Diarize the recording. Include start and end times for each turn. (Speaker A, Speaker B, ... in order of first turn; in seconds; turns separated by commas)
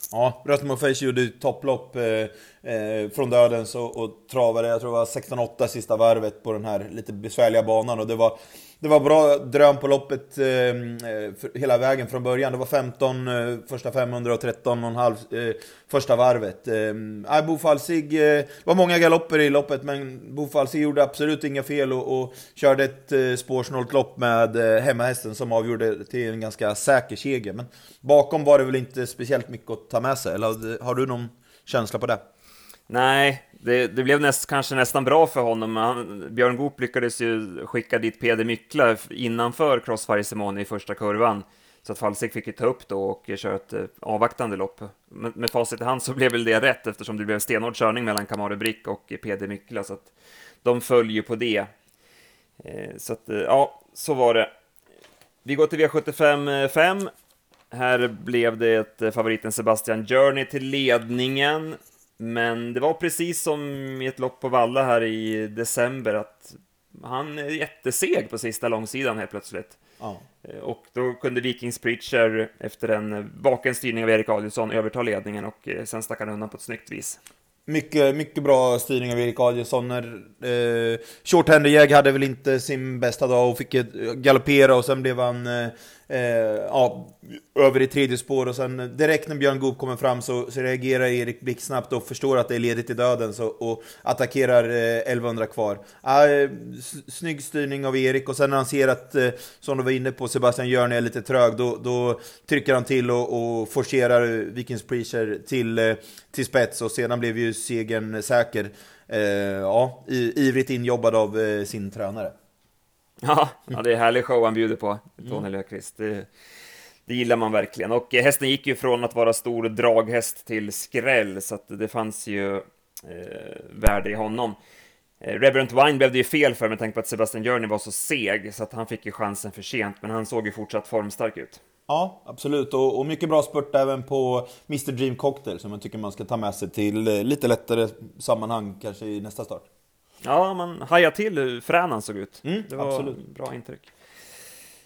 Speaker A: 0.1-32.2, Speaker B: 32.9-50.1, Speaker B: 50.6-51.7, Speaker B: 52.6-54.5, Speaker B: 55.5-57.1, Speaker B: 57.7-69.8, Speaker B: 70.4-77.2, Speaker A: 77.7-112.3, Speaker B: 113.2-116.3, Speaker B: 117.1-124.6, Speaker B: 125.2-131.6, Speaker A: 131.9-139.7, Speaker B: 140.2-143.9, Speaker A: 142.4-143.2